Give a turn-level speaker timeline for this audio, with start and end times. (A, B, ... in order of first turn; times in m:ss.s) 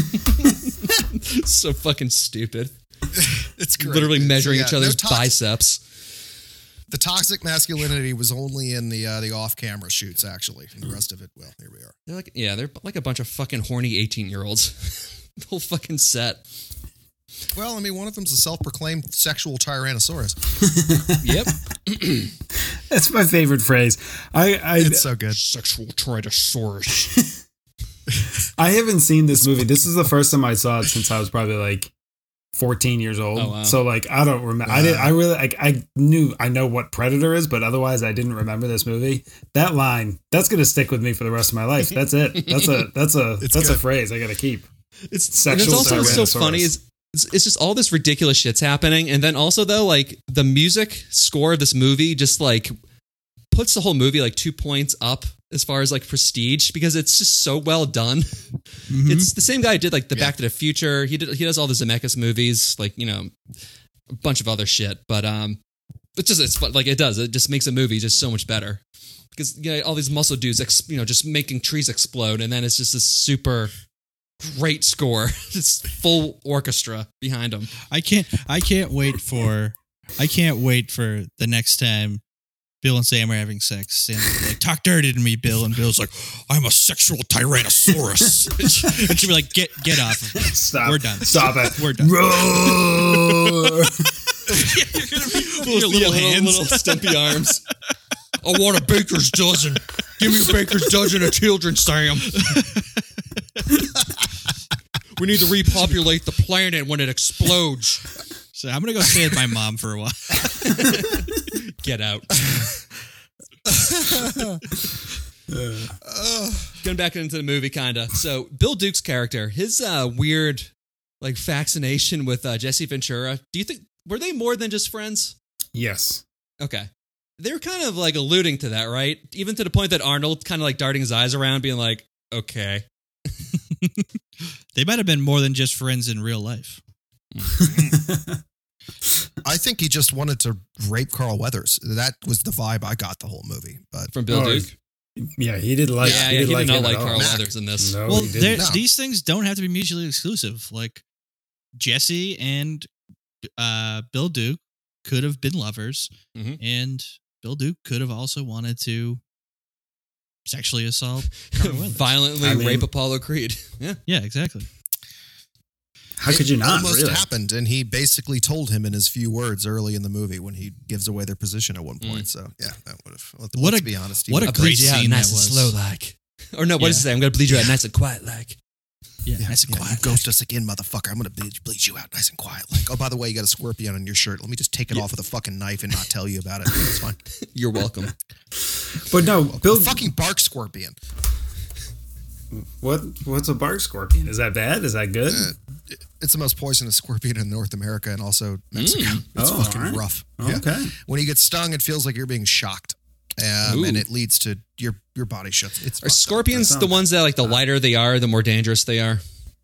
0:00.2-0:02.7 A
0:03.1-0:05.4 B
0:03.8-0:05.8 A
0:06.9-0:11.9 B
0:12.1-0:16.4 A
0:17.5-0:20.4 B
0:20.6-0:21.3 C
0:21.2-0:22.3 A
0:22.9-0:25.1 C
0:24.8-0:25.4 B
0:25.3-0:27.2 A
0:28.6-0:31.9 C
0:32.5-0:44.7 C
0:33.4-0:33.8 A
0:34.6-0:35.2 B
0:43.4-0:43.8 B
0:45.1-0:52.7 A
0:45.3-0:46.7 C
0:45.6-0:46.2 B
0:45.7-0:46.0 D
0:53.5-1:03.4 A
0:58.9-0:59.3 D
1:04.1-1:05.6 A
1:06.2-1:08.8 A
1:09.3-1:13.7 A
1:14.4-1:17.7 A
1:17.9-1:22.2 D
1:22.8-1:32.8 D
1:28.6-1:29.1 A
1:30.4-1:34.4 C
1:34.5-1:37.3 D
1:34.6-1:37.6 A
1:38.4-1:42.6 A
1:40.2-1:41.1 D
1:42.1-1:42.9 D
1:45.2-1:48.1 A
1:48.5-1:50.9 D
1:50.4-1:52.7 A
1:53.6-1:54.6 B
1:55.5-1:56.0 C
1:56.0-1:56.8 B
1:56.8-2:00.7 A
2:01.2-2:05.3 A
2:05.7-2:06.2 C
2:06.6-2:06.9 A
2:07.4-2:12.8 A
2:13.7-2:14.0 D
2:14.7-2:16.8 D
2:17.3-2:18.0 A
2:17.9-2:18.4 C
2:19.4-2:24.1 B
2:24.1-2:24.7 A
2:24.3-2:27.2 C
2:26.0-2:28.0 A
2:27.1-2:27.5 B
2:27.8-2:28.6 C
2:28.1-2:31.0 D
2:28.5-2:28.8 B
2:31.8-2:32.9 D
2:33.6-2:39.2 D
2:40.5-2:42.1 D
2:41.6-2:44.0 A
2:42.4-2:42.9 C
2:44.1-2:44.7 D
2:46.2-2:47.2 C
2:46.3-2:55.0 B
2:53.6-2:55.7 D
2:54.4-2:58.6 A
2:56.8-2:57.0 D
2:59.2-3:00.2 D
2:59.4-3:07.2 B
3:07.4-3:08.1 A
3:08.9-3:10.0 C
3:09.2-3:11.0 B
3:12.5-3:15.5 C
3:15.3-3:26.9 B
3:18.7-3:19.2 A
3:19.4-3:20.9 C
3:23.6-3:24.0 A
3:26.0-3:29.2 A
3:26.6-3:27.0 C